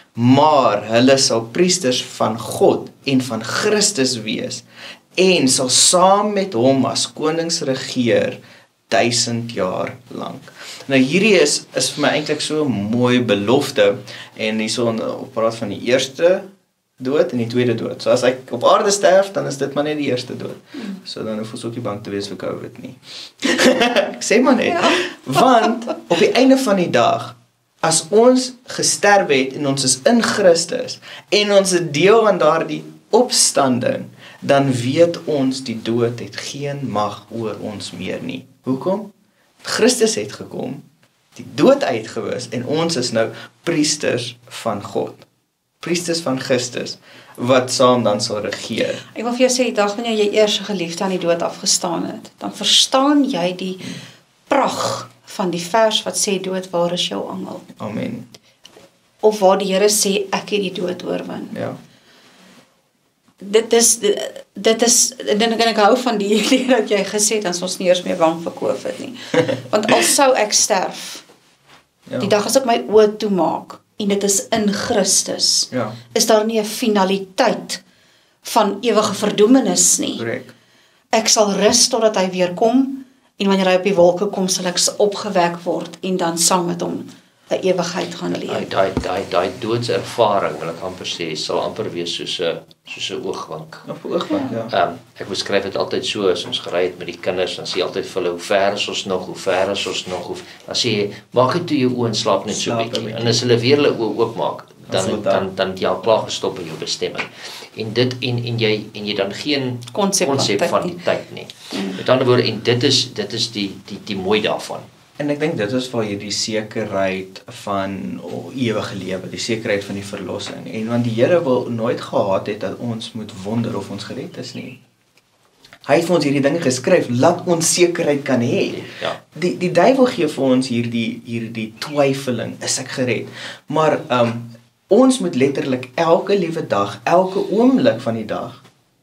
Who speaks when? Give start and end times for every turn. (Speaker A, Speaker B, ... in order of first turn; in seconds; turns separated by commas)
Speaker A: 0.1-4.6, Speaker A: 5.2-16.5, Speaker A: 17.0-39.1, Speaker B: 24.7-25.1, Speaker A: 39.6-40.8, Speaker A: 41.4-45.2, Speaker A: 45.8-49.0, Speaker B: 49.1-57.7, Speaker A: 57.8-58.3, Speaker B: 59.2-61.5, Speaker A: 61.5-61.8, Speaker B: 63.4-71.2, Speaker A: 72.1-72.3, Speaker B: 72.2-77.8, Speaker A: 75.7-76.0, Speaker B: 78.4-80.2, Speaker A: 80.2-80.5, Speaker B: 81.1-88.7, Speaker C: 88.3-93.9, Speaker A: 93.9-94.7, Speaker C: 94.7-114.9, Speaker A: 102.5-103.4, Speaker A: 104.9-105.5, Speaker B: 109.9-111.0, Speaker B: 111.7-112.0, Speaker A: 115.2-124.8, Speaker A: 125.9-138.6, Speaker C: 128.7-129.2